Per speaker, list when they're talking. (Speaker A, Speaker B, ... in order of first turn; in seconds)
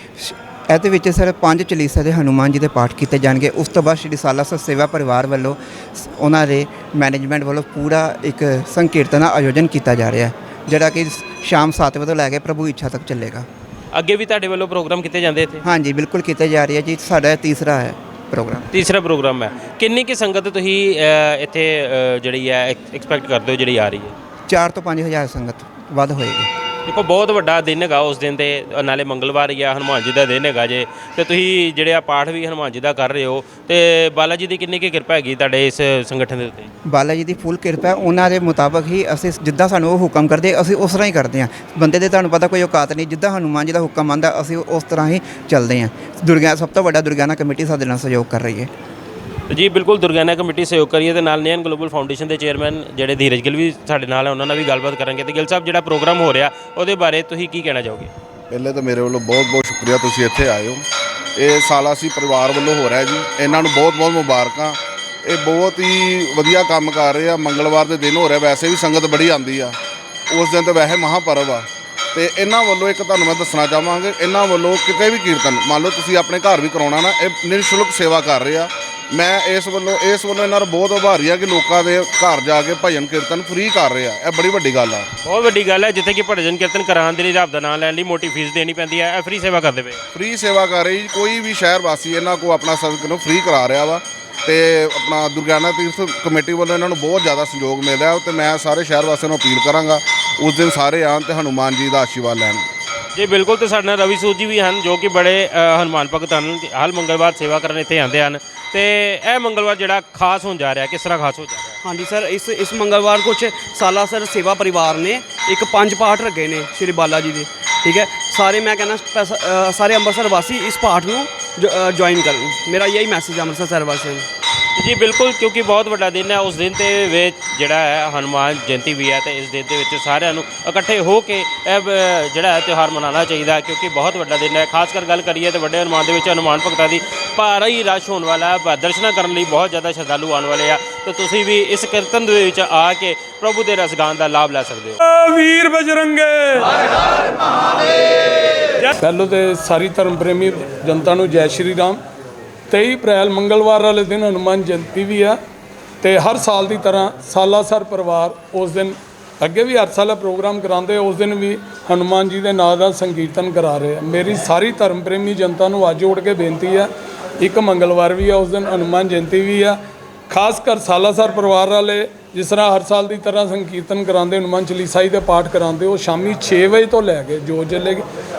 Speaker A: 0.2-13.4, 15.6-18.7, 24.5-26.5, 36.8-48.7
Speaker B: 13.9-15.6, 18.7-24.1, 26.9-36.7, 49.5-58.1, 85.2-90.0, 103.1-111.8, 124.8-145.0
Speaker C: 58.5-60.8, 61.4-69.8, 70.3-85.0, 90.1-102.6
Speaker D: 111.8-124.3
Speaker E: 145.0-146.8, 149.0-152.0, 152.7-155.3, 156.0-166.9, 167.4-169.8, 170.3-178.0